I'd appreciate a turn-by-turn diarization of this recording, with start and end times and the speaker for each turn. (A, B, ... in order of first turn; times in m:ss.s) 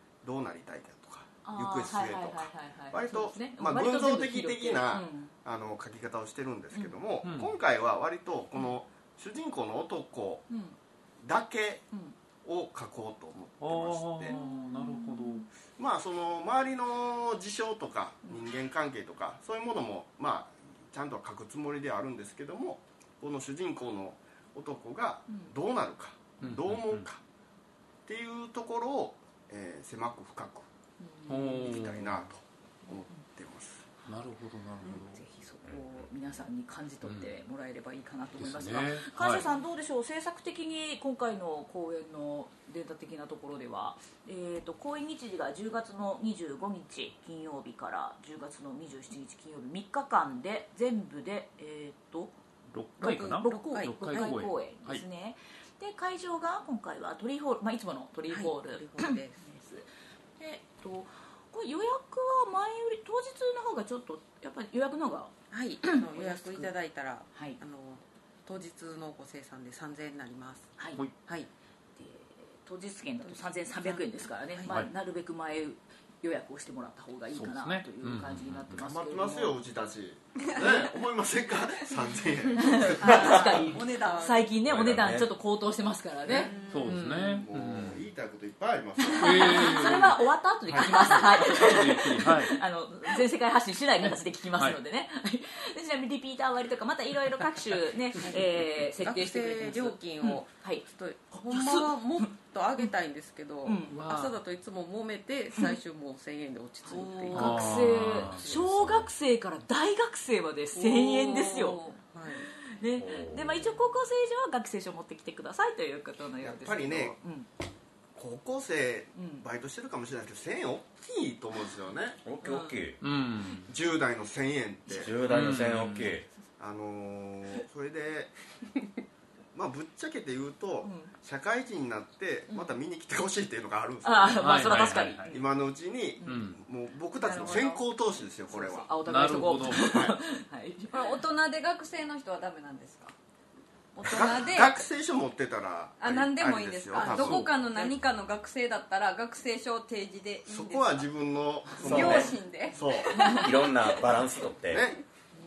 0:00.2-0:10.5 A
0:01.4-0:05.3 B
0:07.2-0:07.5 C
0:10.5-0:10.8 B
0:11.2-0:11.8 A
0:12.4-0:14.4 A
0:13.6-0:15.5 C
0:14.3-0:15.5 B
0:15.8-0:27.2 A
0:26.4-0:27.1 C
0:28.1-0:30.7 A
0:31.0-0:31.9 B
0:31.3-0:32.2 C
0:31.6-0:33.9 A
0:34.1-0:35.2 C
0:34.9-0:52.4 B
0:35.6-0:36.1 D
0:37.0-0:37.4 C
0:38.4-0:39.4 C
0:52.7-0:55.0 C
0:53.0-0:54.5 E
0:53.0-0:59.9 B
0:58.3-0:59.4 E
1:00.4-1:06.7 B
1:05.5-1:11.5 E
1:07.3-1:07.6 B
1:10.8-1:11.1 B
1:12.0-1:19.6 B
1:13.3-1:14.7 E
1:17.3-1:18.8 C
1:18.8-1:23.7 A
1:22.6-1:27.4 B
1:23.0-1:24.5 F
1:24.6-1:25.3 D
1:26.3-1:26.9 F
1:26.7-1:28.0 C
1:27.4-1:29.9 A
1:29.1-1:42.9 B
1:29.2-1:32.6 C
1:38.2-1:48.7 E
1:43.6-1:44.2 B
1:43.9-1:44.3 C
1:46.9-1:51.9 B
1:46.9-1:47.5 F
1:47.3-1:48.4 C
1:48.6-1:49.0 D
1:50.8-1:52.5 E
1:51.5-1:52.0 F
1:52.5-1:57.5 B
1:53.0-1:53.8 D
1:56.4-1:57.2 A
1:58.2-2:02.2 A
1:59.2-1:59.4 B
2:02.2-2:03.0 D
2:02.4-2:02.8 B
2:03.0-2:03.7 C
2:03.7-2:05.2 A
2:04.9-2:06.3 D
2:05.3-2:06.2 C
2:06.6-2:08.3 A
2:09.5-2:18.9 A
2:10.8-2:11.1 B
2:12.5-2:12.8 B
2:14.0-2:15.5 B
2:14.4-2:15.3 C
2:16.2-2:16.5 B
2:16.2-2:16.6 C
2:17.2-2:17.9 B
2:18.5-2:21.2 B
2:19.1-2:20.1 C
2:19.8-2:20.2 A
2:20.9-2:23.1 F
2:24.0-2:24.9 F
2:24.0-2:27.5 A
2:26.0-2:31.1 F
2:27.0-2:27.4 D
2:30.5-2:33.4 A
2:31.8-2:33.5 F
2:31.8-2:32.3 B
2:33.1-2:33.5 B
2:33.3-2:34.9 D
2:34.7-2:35.0 A